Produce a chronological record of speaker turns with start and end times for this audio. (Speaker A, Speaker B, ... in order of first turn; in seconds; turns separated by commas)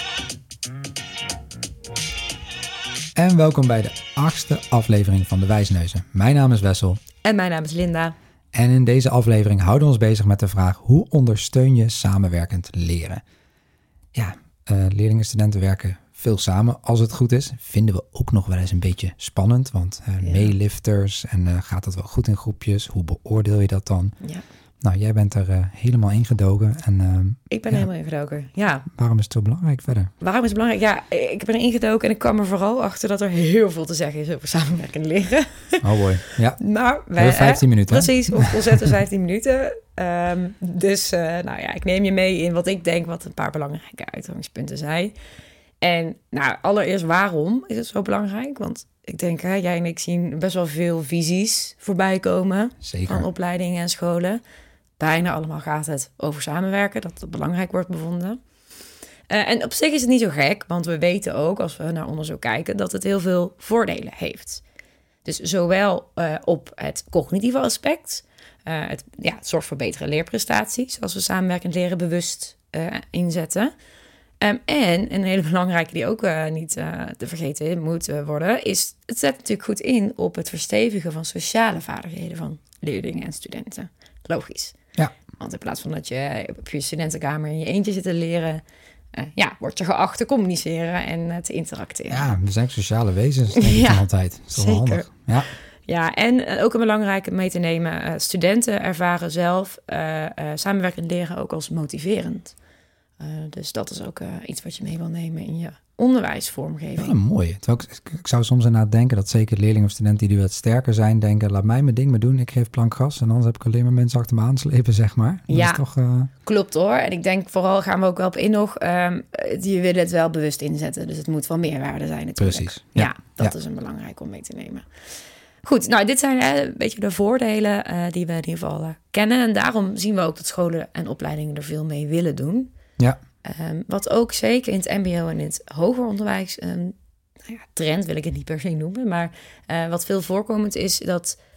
Speaker A: 3.2-7.0, Speaker B: 7.2-8.2, Speaker A: 8.5-13.2, Speaker A: 14.2-24.1, Speaker B: 20.2-20.6, Speaker A: 24.8-27.9, Speaker B: 27.5-28.9, Speaker A: 28.9-30.1, Speaker B: 30.2-35.8, Speaker A: 35.8-36.6, Speaker B: 36.6-45.1, Speaker A: 37.2-38.9, Speaker B: 45.8-54.4, Speaker A: 52.8-53.3, Speaker B: 55.0-58.4, Speaker B: 59.3-64.6, Speaker B: 65.2-73.7, Speaker B: 74.4-84.8, Speaker B: 85.4-88.6, Speaker B: 89.1-92.3, Speaker A: 92.1-95.5, Speaker B: 93.5-102.6, Speaker B: 103.2-107.1, Speaker A: 107.0-116.3, Speaker B: 115.5-115.8, Speaker B: 116.4-124.9, Speaker A: 122.4-123.5, Speaker B: 125.7-132.7, Speaker B: 133.4-137.0, Speaker B: 137.5-141.4